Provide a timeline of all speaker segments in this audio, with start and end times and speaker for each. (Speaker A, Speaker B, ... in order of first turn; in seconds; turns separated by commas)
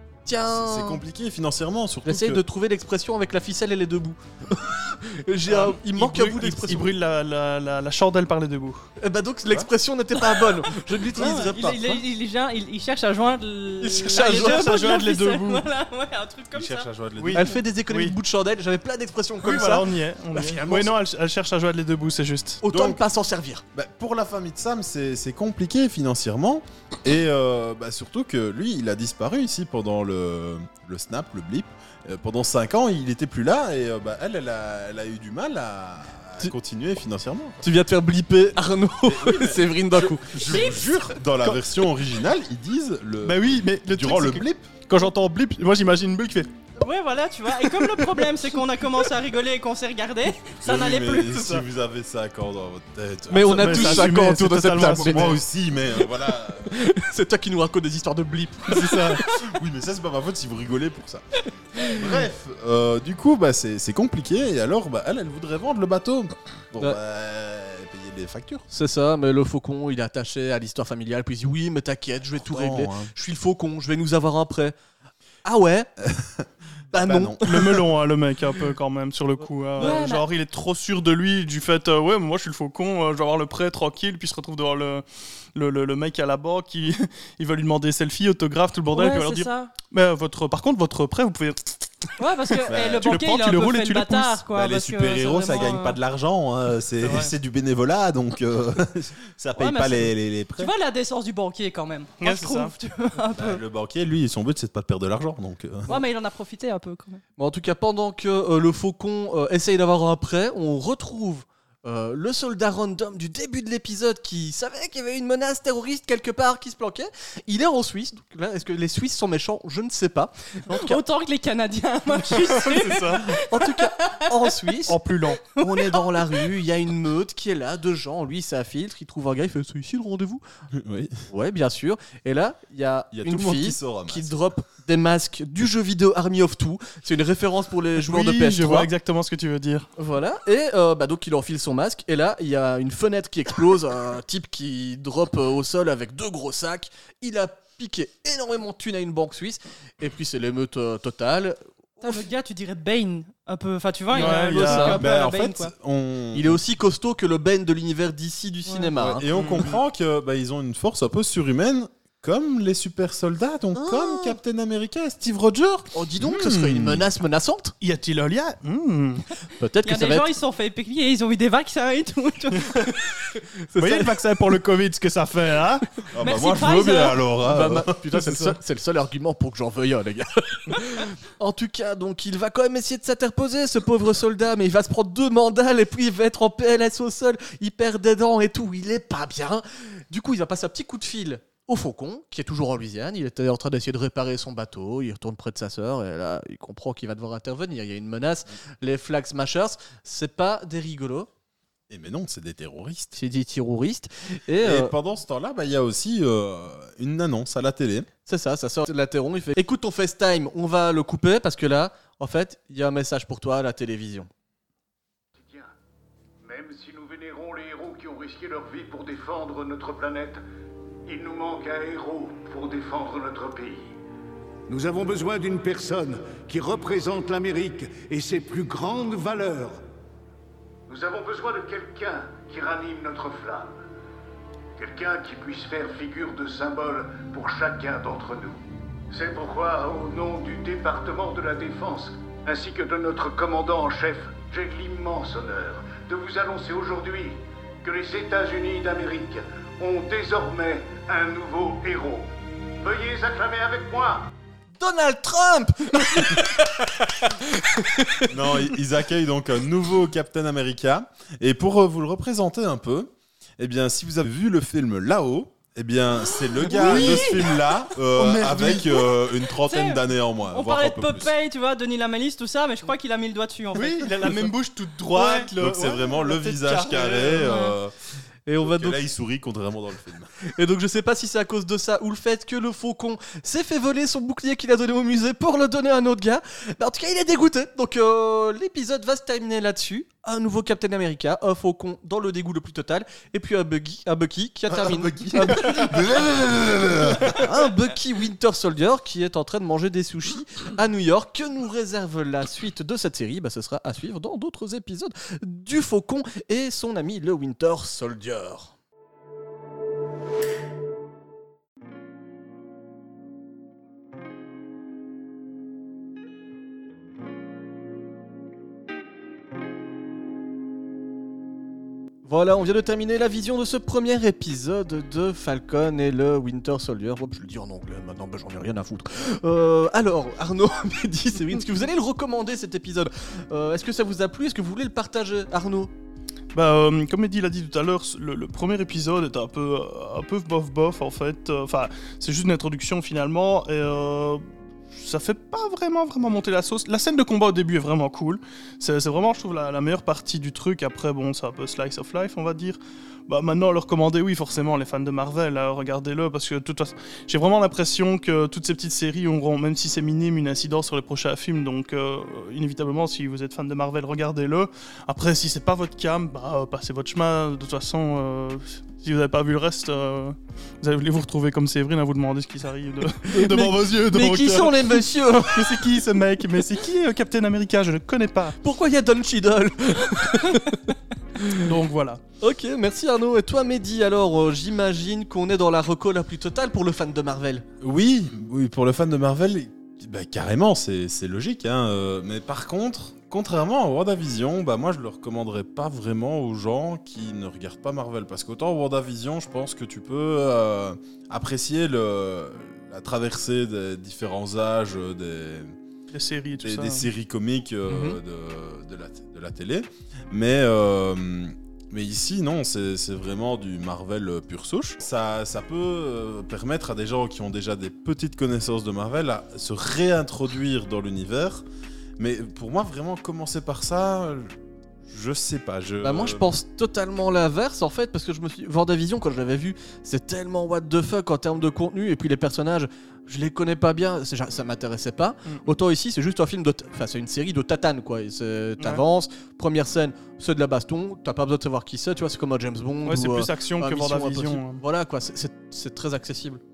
Speaker A: 0.2-1.0, Speaker B: 0.5-2.4, Speaker A: 2.1-6.9, Speaker C: 5.5-8.9, Speaker A: 9.0-12.0, Speaker D: 11.1-16.9, Speaker A: 13.8-14.7, Speaker C: 14.2-15.7, Speaker B: 16.5-17.6, Speaker C: 17.2-18.2, Speaker A: 17.3-20.9, Speaker C: 19.4-22.6, Speaker A: 22.6-23.6, Speaker B: 22.7-23.0, Speaker B: 23.7-37.6, Speaker A: 37.6-40.6, Speaker B: 39.0-44.7, Speaker D: 40.4-40.9, Speaker C: 43.2-46.5, Speaker D: 46.8-51.4, Speaker B: 50.6-56.8, Speaker A: 53.3-55.3, Speaker C: 53.5-55.4, Speaker A: 56.7-59.2, Speaker C: 58.7-59.2, Speaker B: 59.2-61.2, Speaker B: 61.8-68.7, Speaker A: 68.7-74.8, Speaker B: 72.3-73.1, Speaker A: 75.5-75.9, Speaker B: 76.0-77.8, Speaker A: 76.9-77.8, Speaker C: 77.5-94.4, Speaker D: 79.8-80.2, Speaker D: 88.9-89.7, Speaker D: 92.2-96.0, Speaker B: 92.7-93.1, Speaker B: 94.5-100.7, Speaker C: 97.0-97.3, Speaker D: 99.6-103.6, Speaker C: 102.2-102.7, Speaker B: 103.3-106.0, Speaker D: 105.9-107.2, Speaker A: 107.4-121.0, Speaker D: 120.7-124.4, Speaker C: 122.2-123.4, Speaker A: 123.5-125.0, Speaker C: 124.9-125.4, Speaker D: 125.4-126.5, Speaker A: 125.6-130.4, Speaker B: 130.7-131.2, Speaker A: 131.3-138.9, Speaker B: 133.1-134.3, Speaker C: 138.0-139.9, Speaker A: 140.0-152.2, Speaker D: 152.0-155.7, Speaker C: 154.1-155.0, Speaker A: 154.1-155.0, Speaker B: 154.9-156.6, Speaker A: 156.3-159.3, Speaker D: 158.7-158.9, Speaker B: 159.0-167.1, Speaker C: 159.3-159.8, Speaker A: 163.8-164.4, Speaker A: 165.9-167.7, Speaker C: 167.8-169.3, Speaker A: 169.6-170.3, Speaker D: 169.8-172.9, Speaker A: 173.3-174.2, Speaker C: 173.8-175.8, Speaker B: 176.1-178.0, Speaker D: 176.2-177.2, Speaker A: 177.5-201.3, Speaker C: 178.2-178.5, Speaker B: 201.9-203.2, Speaker A: 203.2-204.9, Speaker B: 204.6-208.1, Speaker A: 208.3-214.3, Speaker E: 215.4-215.7, Speaker E: 216.4-220.4, Speaker E: 221.1-224.0, Speaker E: 224.7-229.8, Speaker E: 230.9-233.8, Speaker E: 234.8-254.3, Speaker A: 254.8-258.3, Speaker B: 258.3-271.3, Speaker C: 266.7-267.4, Speaker A: 266.8-267.3, Speaker A: 268.2-268.8, Speaker D: 269.6-274.5, Speaker C: 273.7-277.5, Speaker D: 275.2-275.5, Speaker B: 275.5-277.9, Speaker D: 277.4-277.7, Speaker A: 278.5-279.0, Speaker B: 278.6-280.3, Speaker A: 280.5-296.0, Speaker B: 294.7-297.5, Speaker A: 297.4-308.7, Speaker A: 322.2-335.9, Speaker C: 336.6-378.6, Speaker A: 373.3-375.9, Speaker A: 378.6-380.8, Speaker A: 381.4-381.7, Speaker C: 381.5-382.2, Speaker A: 382.4-387.6, Speaker B: 387.8-405.8, Speaker C: 406.1-407.1, Speaker B: 406.6-421.6, Speaker A: 407.9-408.2, Speaker B: 422.2-424.6, Speaker B: 425.1-426.5, Speaker A: 426.0-446.6, Speaker C: 443.1-444.8